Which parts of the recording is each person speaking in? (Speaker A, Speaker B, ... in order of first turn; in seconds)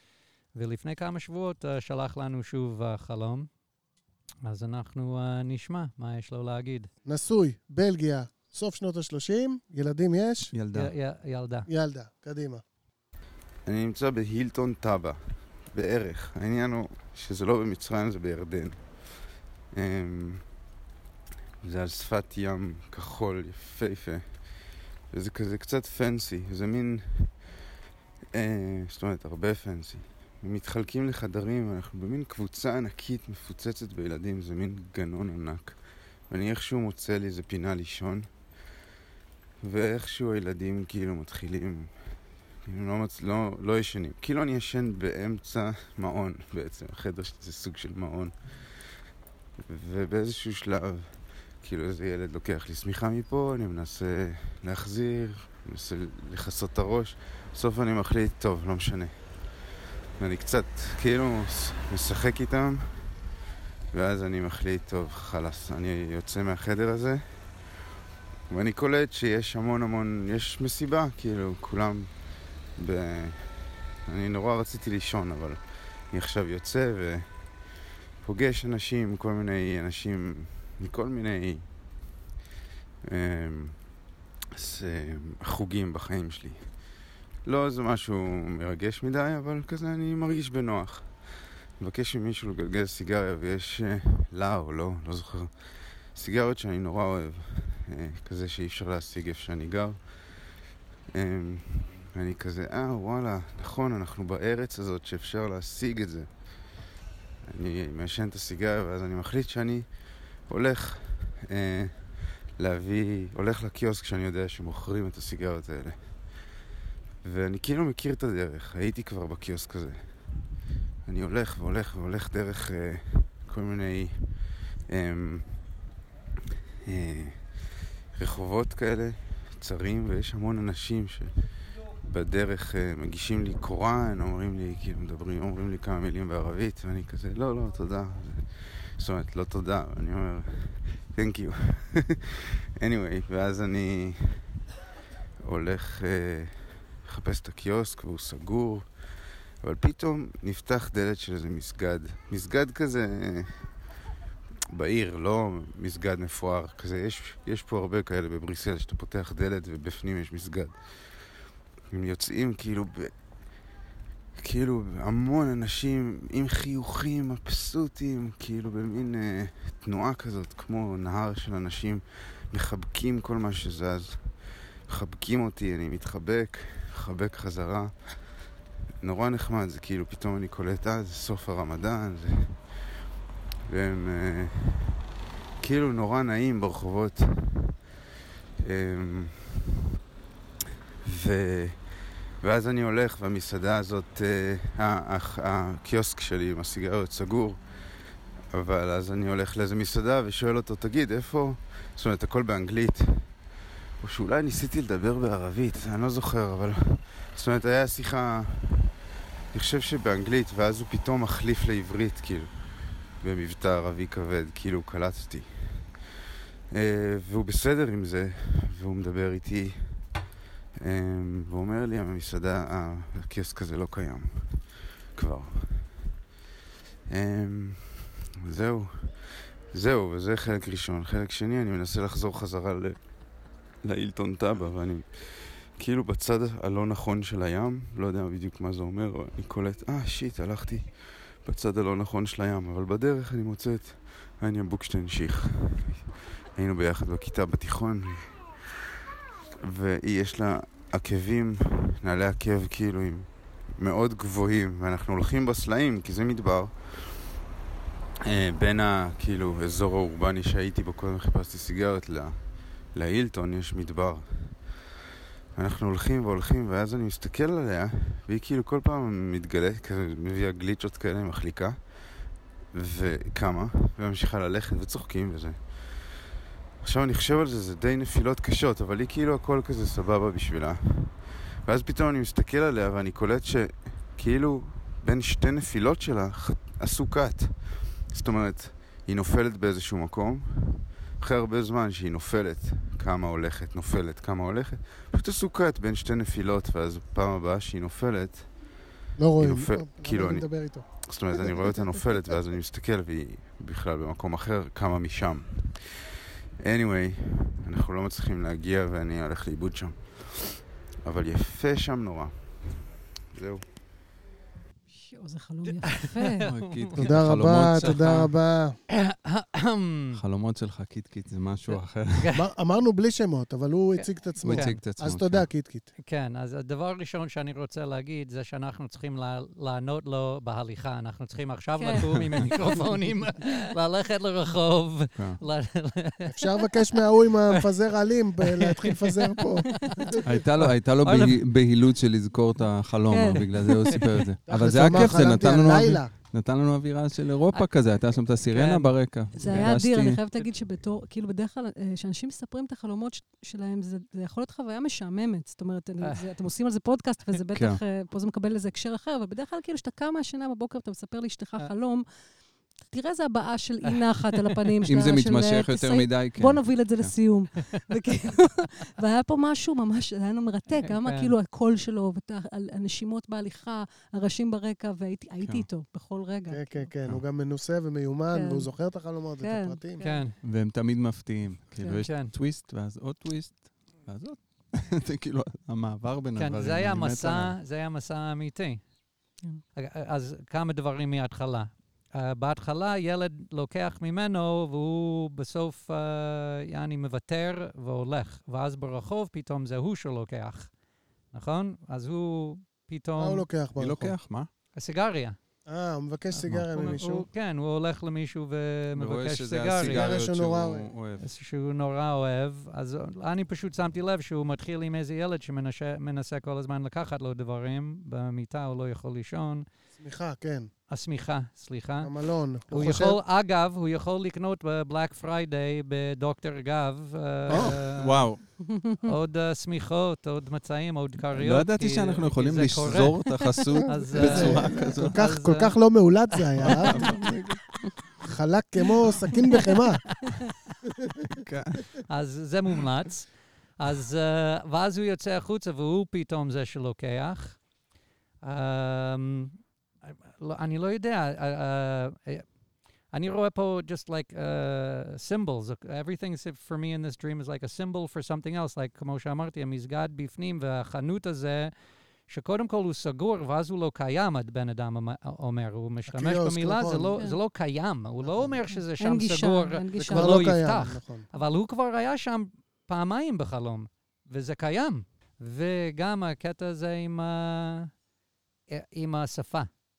Speaker A: 0.6-3.5, 4.5-6.9, 10.7-11.7, 316.0-317.0, 318.9-320.2, 321.7-322.4, 324.0-324.8, 326.0-336.4, 338.4-341.4, 343.3-344.0, 347.5-349.8, 370.8-371.3, 380.0-380.4, 382.0-382.3, 386.4-388.9, 389.8-400.8, 401.3-403.5, 404.7-405.4, 406.7-410.1, 411.2-419.6, 420.9-437.2, 442.1-447.7, 448.4-477.9, 478.7-479.7
Speaker B: 7.0-10.5, 11.7-12.6, 299.2-302.4, 317.0-318.8, 322.3-325.9, 336.3-340.2, 344.5-346.1, 376.5-380.0, 403.2-404.2, 405.7-407.3, 409.8-410.9, 419.9-420.7, 422.0-423.2, 427.5-427.8, 434.1-437.6, 438.2-440.3, 466.1-467.2, 468.2-468.6, 469.9-471.3
Speaker C: 10.5-10.9, 316.4-318.3, 320.1-322.3, 324.4-325.5, 332.1-332.5, 335.1-335.4, 340.2-350.2, 357.6-357.8, 364.9-367.2, 375.4-375.7, 380.4-387.6, 403.8-404.5, 406.3-407.0, 409.0-411.3, 427.5-428.4, 431.3-435.2, 436.6-437.6, 441.4-442.0
Speaker D: 13.7-20.5, 21.6-24.6, 25.1-27.4, 28.3-38.3, 39.6-49.0, 49.7-63.2, 63.9-67.7, 68.5-77.6, 78.2-81.9, 83.1-84.0, 84.6-86.9, 87.4-100.5, 101.1-106.7, 107.5-116.5, 117.2-120.5, 121.0-125.8, 126.9-127.6, 128.1-131.3, 132.0-142.3, 142.8-144.5, 145.4-153.8, 154.7-161.2, 161.9-163.2, 164.4-178.3, 179.0-182.7, 183.7-184.9, 185.6-187.7, 188.6-189.6, 191.1-197.9, 198.5-203.5, 204.0-208.9, 209.5-216.0, 216.7-220.2, 220.8-226.2, 227.1-246.0, 246.6-248.5, 249.6-257.3, 258.3-264.8, 265.6-276.1, 276.8-298.8, 299.4-306.0, 306.6-313.7
Speaker E: 314.9-316.5, 331.8-332.6, 343.1-344.1, 349.4-376.9, 378.3-380.3, 381.8-382.0, 428.7-429.1, 434.4-434.7, 468.7-470.5